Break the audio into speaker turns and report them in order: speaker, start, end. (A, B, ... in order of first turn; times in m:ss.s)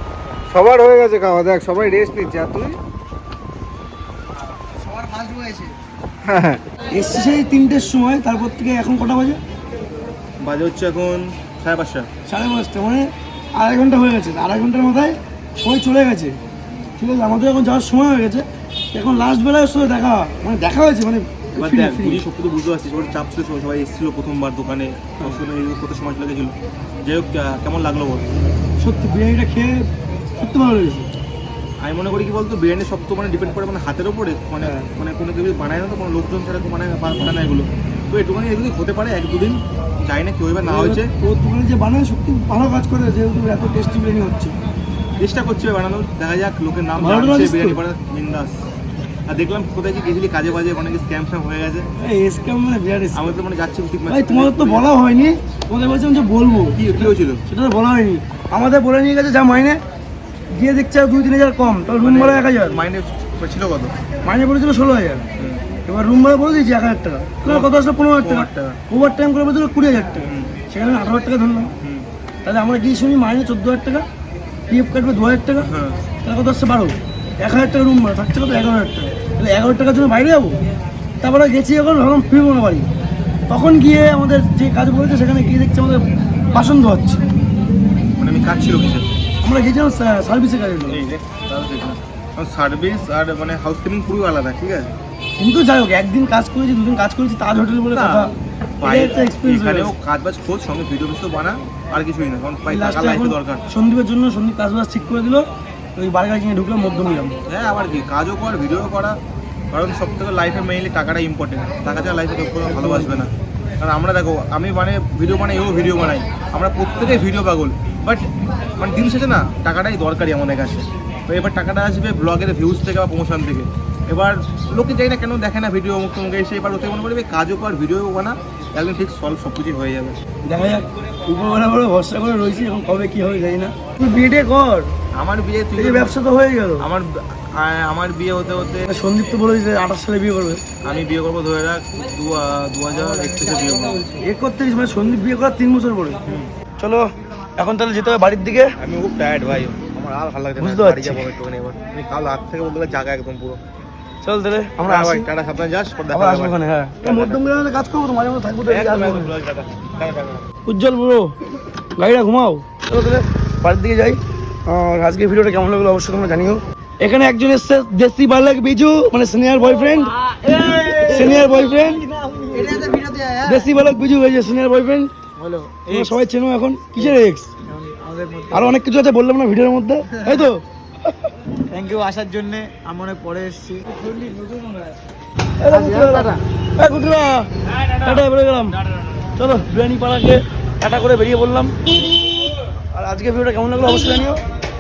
0:00.5-0:02.8 A
0:04.9-0:05.7 B
0:06.2-0:06.6 A
0:06.9-0:09.4 C
0:10.4-0:12.1 D
0:12.3-0:16.4 C
0:17.0-0:22.2 C
0:21.6-0:28.3 D
0:28.8-0:29.9 C
0:30.4-0:31.1 C
0:31.8-0:41.1 D
0:34.6-0:34.9 C
0:40.6-0:44.6 C
0:45.2-0:48.6 D
0:47.0-0:47.8 C
0:49.3-0:51.9 D
0:52.0-0:53.4 C
0:53.1-0:54.9 D
0:54.1-0:59.8 C
0:56.8-0:57.4 D
1:00.5-1:02.8 C
1:02.0-1:04.0 D
1:04.2-1:05.2 C
1:05.4-1:05.6 D
1:05.9-1:11.7 C
1:07.4-1:08.8 D
1:10.3-1:10.5 D
1:11.8-1:12.1 D
1:12.4-1:14.1 C
1:14.7-1:15.7 C
1:15.6-1:16.0 D
1:16.2-1:20.6 C
1:21.2-1:22.9 C
1:23.5-1:27.2 C
1:28.2-1:29.1 D
1:29.4-1:31.0 C
1:30.9-1:34.9 D
1:35.4-1:39.9 C
1:37.9-1:43.6 D
1:42.7-1:47.4 C
1:47.5-1:49.2 D
1:49.7-1:53.3 D
1:52.7-1:53.2 C
1:53.8-2:10.2 D
2:10.4-2:14.9 C
2:15.2-2:16.1 D
2:15.8-2:16.8 C
2:16.8-2:18.8 D
2:18.9-2:20.6 C
2:20.8-2:24.1 D
2:24.2-2:26.2 C
2:27.6-2:28.7 C
2:28.8-2:33.6 D
2:30.6-2:31.3 C
2:34.2-2:35.3 C
2:34.8-2:37.4 D
2:36.1-2:39.3 C
2:38.7-2:40.5 D
2:40.7-2:41.3 C
2:42.0-2:50.2 C
2:50.2-2:53.7 B
2:51.1-2:52.0 C
2:53.4-2:55.1 C
2:55.4-2:56.2 B
2:55.9-2:57.5 C
2:57.7-2:58.8 B
2:58.5-3:00.6 C
3:00.2-3:00.4 B
3:01.7-3:04.8 B
3:05.6-3:08.8 C
3:05.7-3:06.4 B
3:09.4-3:11.8 C
3:12.9-3:14.4 C